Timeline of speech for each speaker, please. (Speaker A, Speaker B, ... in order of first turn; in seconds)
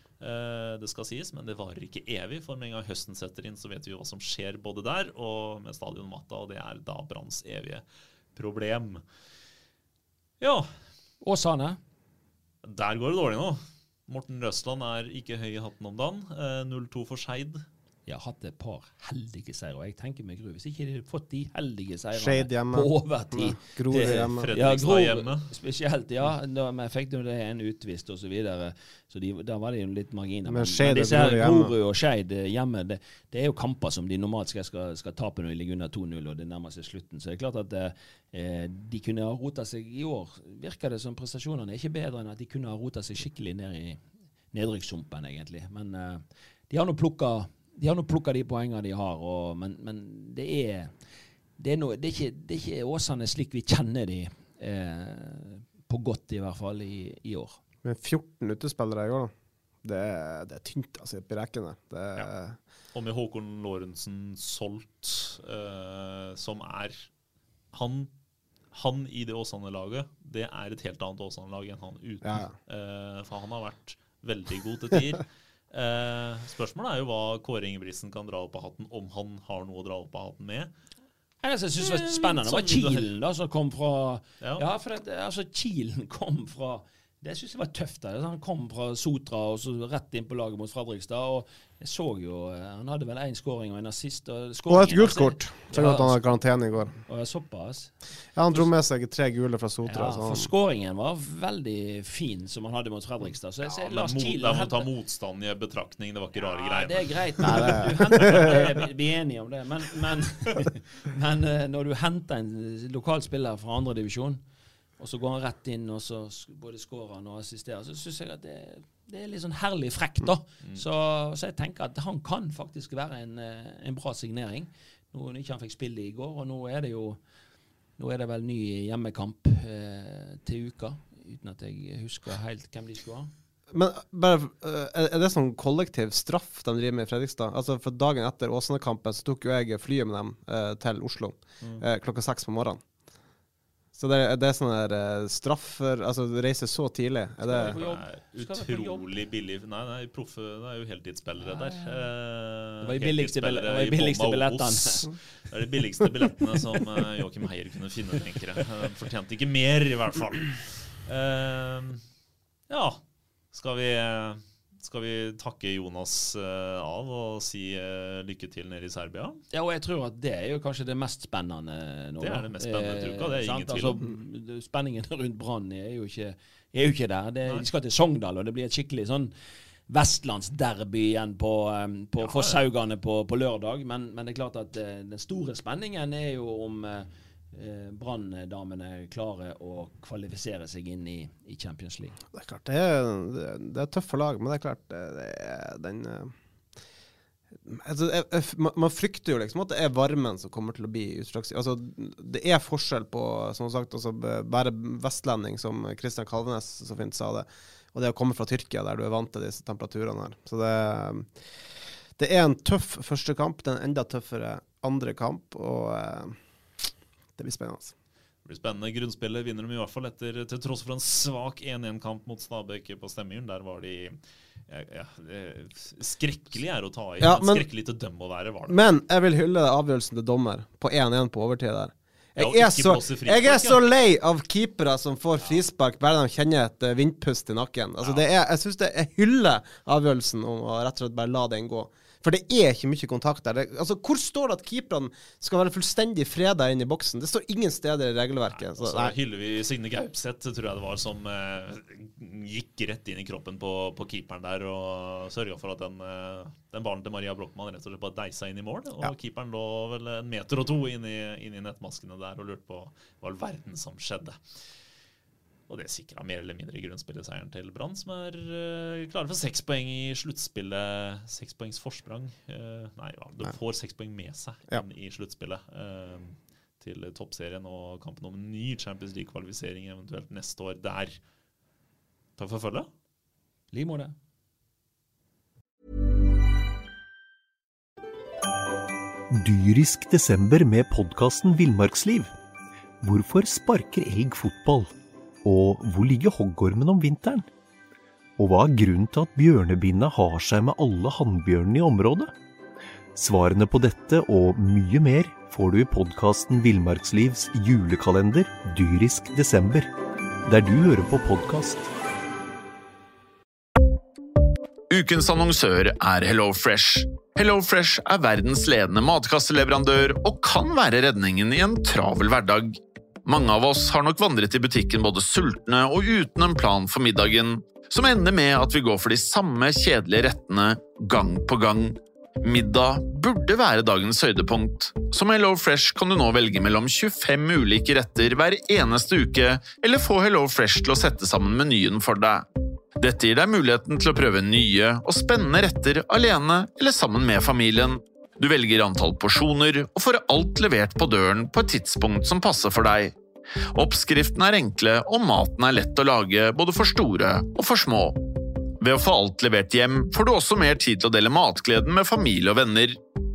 Speaker A: 0.2-9.0, 10.4-10.7, 12.6-17.6, 24.4-25.5, 62.9-67.1, 67.7-68.1, 68.7-80.7, 81.8-83.1, 103.7-108.6, 147.5-162.0, 162.7-163.0, 163.5-169.4, 172.2-174.0, 182.2-182.6, 218.4-224.2, 224.7-228.8, 232.4-233.8, 248.5-264.6, 265.7-281.2, 282.4-282.9
Speaker B: 11.2-11.8, 18.1-51.0, 51.6-57.6, 81.4-96.4, 97.0-98.7, 99.8-104.9, 106.4-114.4, 115.0-127.2, 128.0-133.3, 147.5-149.2, 151.5-151.9, 152.8-155.1, 169.5-179.3, 179.9-192.2, 283.7-284.1
Speaker C: 22.1-24.5, 30.4-31.7, 57.8-62.6, 72.2-72.5, 94.7-97.0, 98.3-100.5, 107.4-108.5, 133.7-142.8, 143.9-147.8, 192.3-196.3, 197.6-211.5, 212.2-216.4, 217.4-217.9, 227.2-227.7, 228.7-249.2
Speaker D: 289.3-292.3, 293.0-294.9, 295.4-297.5, 298.4-302.3, 303.1-309.9, 310.4-311.9
Speaker E: 314.9-342.4, 343.0-353.1, 353.7-358.2, 358.8-363.0